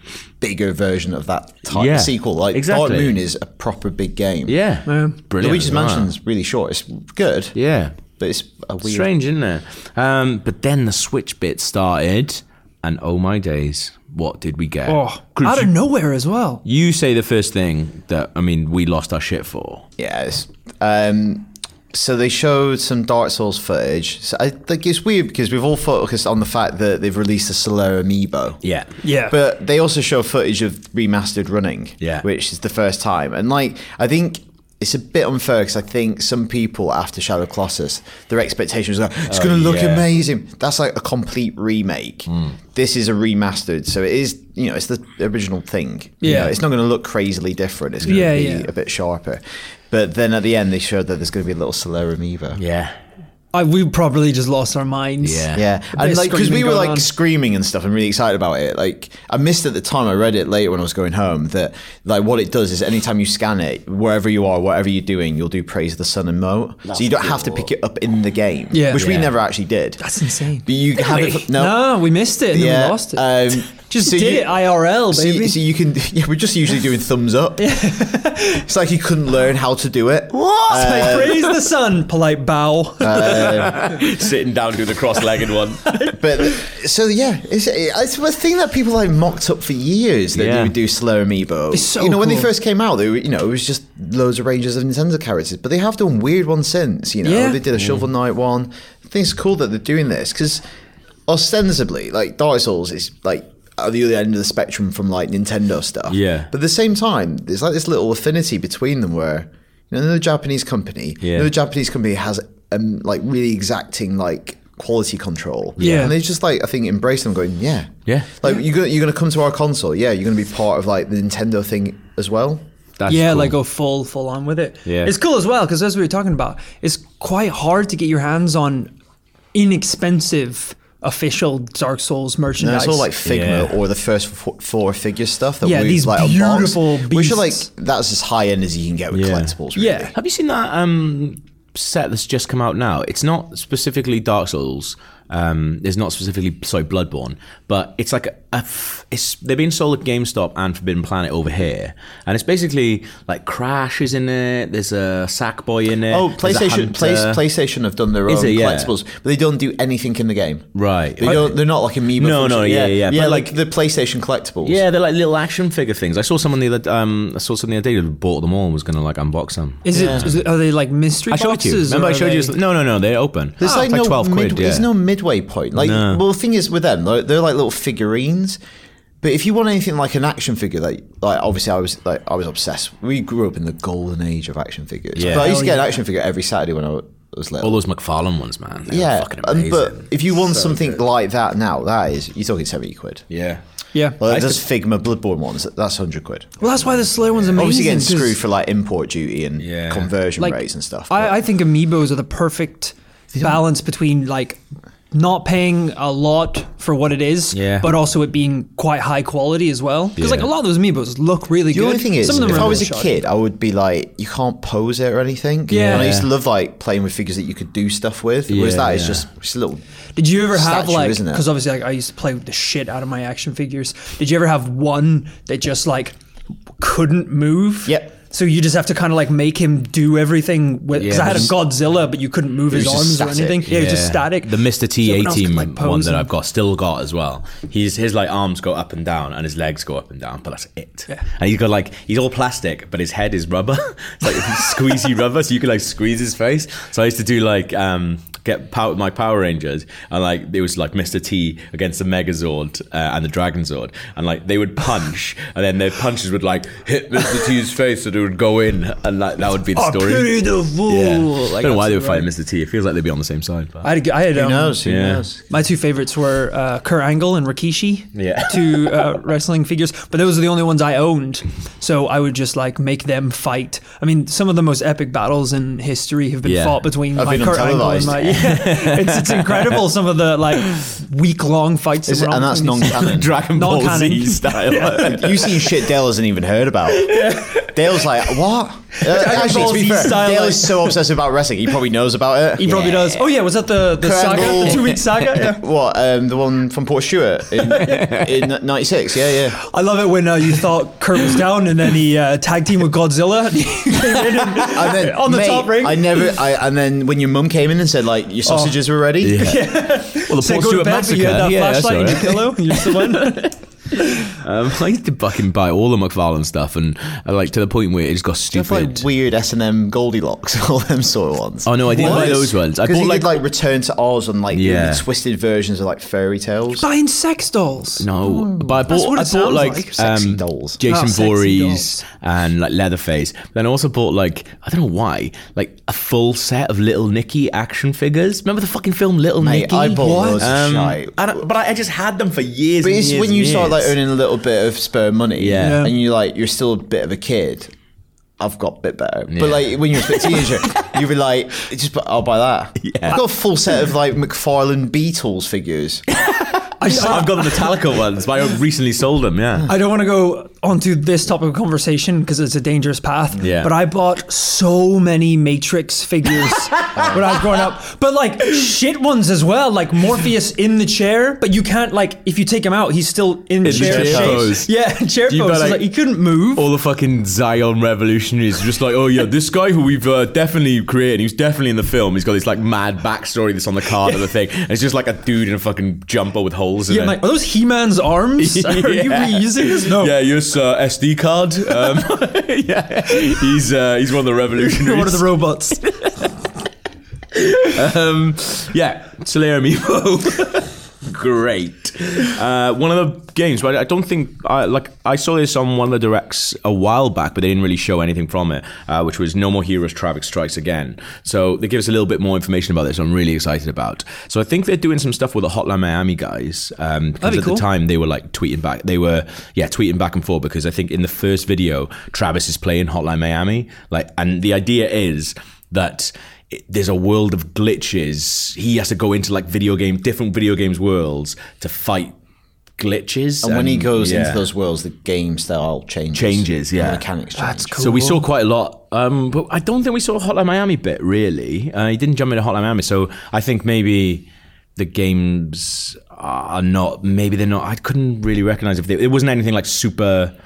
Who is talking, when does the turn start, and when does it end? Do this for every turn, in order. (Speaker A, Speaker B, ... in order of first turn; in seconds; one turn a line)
Speaker A: 0.4-4.6
Speaker B: 1.7-3.2
Speaker B: 4.5-6.1
Speaker C: 4.9-5.2
Speaker A: 5.4-7.5
Speaker B: 7.5-7.9
Speaker A: 8.2-9.1
Speaker B: 8.8-15.7
Speaker C: 14.9-16.6
Speaker B: 16.6-19.9
Speaker A: 20.0-28.6
Speaker B: 28.6-28.9
Speaker C: 29.0-29.3
Speaker A: 29.2-52.6
Speaker B: 39.3-40.1
Speaker C: 46.2-46.5
Speaker C: 48.0-48.7
Speaker B: 52.5-53.0
Speaker C: 53.5-57.1
Speaker B: 55.2-55.7
Speaker A: 55.5-70.0
Speaker B: 66.9-67.7
Speaker C: 68.7-69.2
Speaker B: 68.9-69.3
Speaker C: 70.0-75.6
Speaker A: 70.6-77.6
Speaker C: 77.6-78.6
Speaker A: 78.7-81.4
Speaker B: 80.3-81.5
Speaker C: 80.7-83.5
Speaker A: 83.0-83.9
Speaker B: 83.3-86.0
Speaker A: 86.2-100.6
Speaker B: 90.3-90.7
Speaker C: 91.7-92.5
Speaker C: 97.2-97.6
Speaker B: 97.8-98.1
Speaker A: 101.3-122.6
Speaker B: 106.1-106.5
Speaker B: 111.2-111.5
Speaker B: 115.8-116.1
Speaker C: 115.8-116.1
Speaker B: 118.0-118.3
Speaker B: 123.0-123.5
Speaker C: 123.1-128.9
Speaker B: 124.8-125.1
Speaker C: 129.5-133.1
Speaker A: 132.6-140.1
Speaker B: 133.2-133.7
Speaker C: 135.6-137.7
Speaker B: 139.1-139.6
Speaker C: 139.8-140.1
Speaker B: 140.1-157.4
Speaker A: 156.1-160.7
Speaker B: 158.3-158.9
Speaker B: 160.7-161.6
Speaker A: 161.2-164.8
Speaker B: 162.2-163.6
Speaker B: 164.6-170.4
Speaker C: 169.8-172.6
Speaker A: 169.9-170.3
Speaker B: 171.3-174.9
Speaker A: 173.6-178.6
Speaker B: 175.8-176.2
Speaker A: 179.2-187.8
Speaker B: 185.2-185.5
Speaker C: 185.3-185.9
Speaker B: 187.6-191.0
Speaker A: 188.9-193.2
Speaker B: 193.3-193.6
Speaker C: 193.9-194.2
Speaker A: 194.2-196.7
Speaker B: 194.2-194.6
Speaker C: 196.6-198.4
Speaker A: 197.5-201.4
Speaker B: 199.6-200.1
Speaker C: 200.4-213.1
Speaker A: 203.3-203.6
Speaker B: 207.5-207.9
Speaker B: 210.2-210.5
Speaker A: 211.7-219.8
Speaker B: 212.3-212.8
Speaker C: 215.7-216.2
Speaker B: 215.7-216.3
Speaker B: 218.5-219.2
Speaker C: 220.2-226.2
Speaker A: 220.3-221.4
Speaker C: 226.8-236.3
Speaker A: 227.8-228.1
Speaker B: 230.9-231.6
Speaker A: 232.7-233.6
Speaker B: 233.6-263.9
Speaker C: 259.7-262.2
Speaker C: 263.8-264.8
Speaker A: 264.3-265.4
Speaker B: 264.8-265.2
Speaker C: 265.5-285.1
Speaker B: 268.1-269.1
Speaker B: 276.4-276.8
Speaker A: 277.1-278.5
Speaker B: 278.4-279.8
Speaker A: 282.1-283.3
Speaker B: 283.0-285.7
Speaker A: 284.9-293.1
Speaker C: 287.1-287.6
Speaker C: 289.0-290.9
Speaker C: 292.6-295.6
Speaker B: 292.7-293.0
Speaker A: 293.9-299.6
Speaker C: 297.8-298.2
Speaker C: 299.6-306.2
Speaker A: 304.6-309.5
Speaker C: 308.4-308.8
Speaker B: 309.2-313.5
Speaker C: 309.3-313.5
Speaker B: 314.3-319.1
Speaker A: 318.5-326.9
Speaker B: 321.6-323.4
Speaker C: 321.9-322.4
Speaker B: 324.5-325.0
Speaker C: 326.8-329.9
Speaker B: 328.0-343.9
Speaker A: 328.2-328.8
Speaker A: 330.0-330.8
Speaker C: 330.9-332.0
Speaker A: 339.4-341.4
Speaker C: 339.9-340.4
Speaker A: 342.8-347.7
Speaker B: 345.4-345.9
Speaker C: 345.6-345.9
Speaker A: 348.4-356.0
Speaker B: 349.3-350.9
Speaker B: 352.8-353.2
Speaker B: 356.2-359.7
Speaker C: 356.8-357.6
Speaker A: 356.9-357.2
Speaker C: 359.7-376.6
Speaker B: 363.4-363.7
Speaker B: 366.8-367.1
Speaker A: 366.9-367.4
Speaker B: 373.6-374.7
Speaker A: 373.6-374.5
Speaker B: 375.2-376.0
Speaker B: 376.5-387.2
Speaker C: 384.0-384.3
Speaker C: 386.9-390.1
Speaker B: 388.4-395.3
Speaker C: 394.7-395.9
Speaker B: 395.8-396.3
Speaker B: 397.3-432.1
Speaker C: 417.2-417.6
Speaker B: 432.8-434.5
Speaker A: 433.4-437.8
Speaker B: 436.1-437.0
Speaker C: 437.4-438.2
Speaker B: 437.8-450.3